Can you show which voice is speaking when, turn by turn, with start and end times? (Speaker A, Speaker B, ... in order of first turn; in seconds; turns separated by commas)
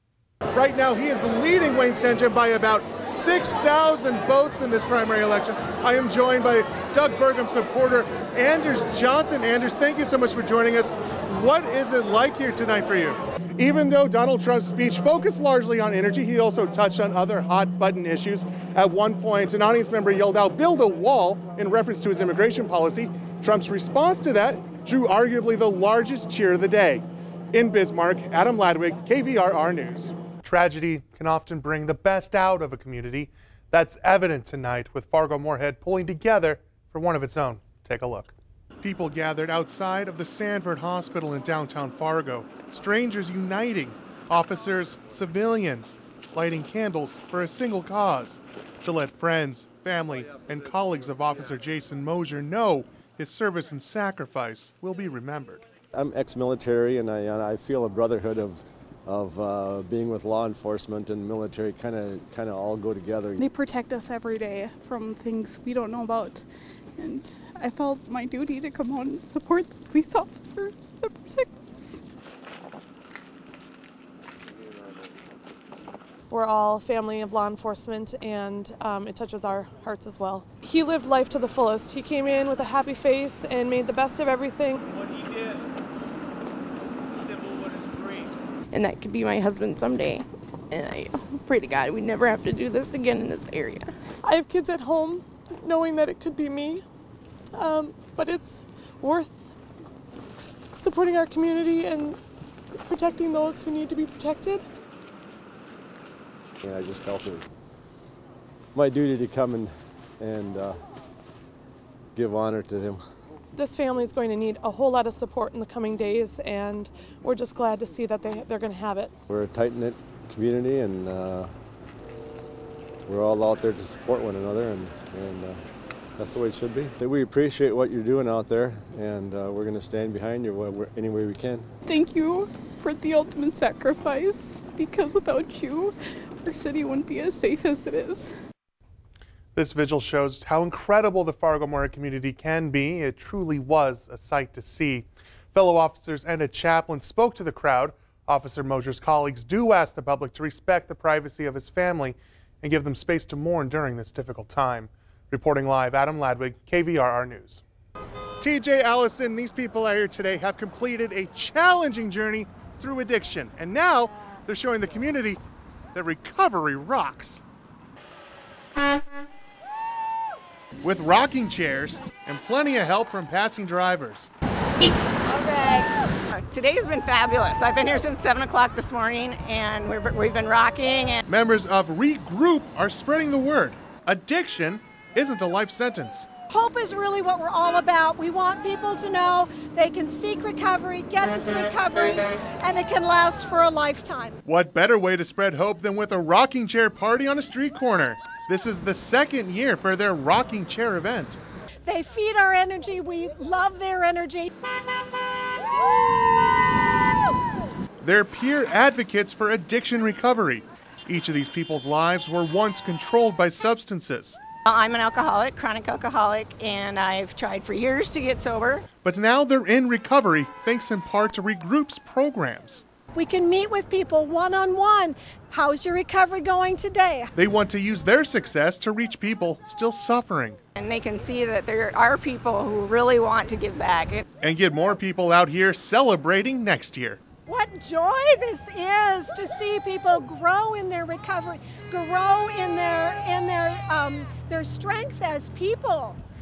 Speaker A: 0.5-55.6, Speaker B: 55.9-63.4, Speaker C: 63.4-72.0, Speaker D: 76.3-84.8, Speaker E: 84.9-85.6, Speaker E: 87.1-88.3, Speaker F: 88.7-93.9, Speaker D: 94.2-96.8, Speaker D: 97.5-99.4, Speaker D: 100.7-102.2, Speaker D: 102.8-104.6, Speaker B: 106.6-107.5, Speaker B: 108.7-110.8, Speaker B: 112.1-113.0, Speaker D: 113.5-119.1, Speaker B: 119.3-121.5, Speaker B: 123.0-125.6, Speaker B: 126.2-131.7, Speaker C: 131.8-138.3, Speaker A: 139.5-157.6, Speaker A: 158.4-165.4, Speaker A: 165.9-167.4, Speaker A: 170.8-174.3, Speaker G: 175.3-181.2, Speaker A: 181.3-186.3, Speaker H: 186.5-194.4, Speaker A: 194.5-201.4, Speaker H: 201.8-204.5, Speaker A: 208.0-214.4, Speaker G: 214.7-218.8, Speaker A: 219.0-222.8, Speaker H: 223.1-227.3, Speaker A: 227.3-230.6, Speaker G: 230.8-234.2, Speaker A: 234.4-237.2, Speaker H: 237.5-246.2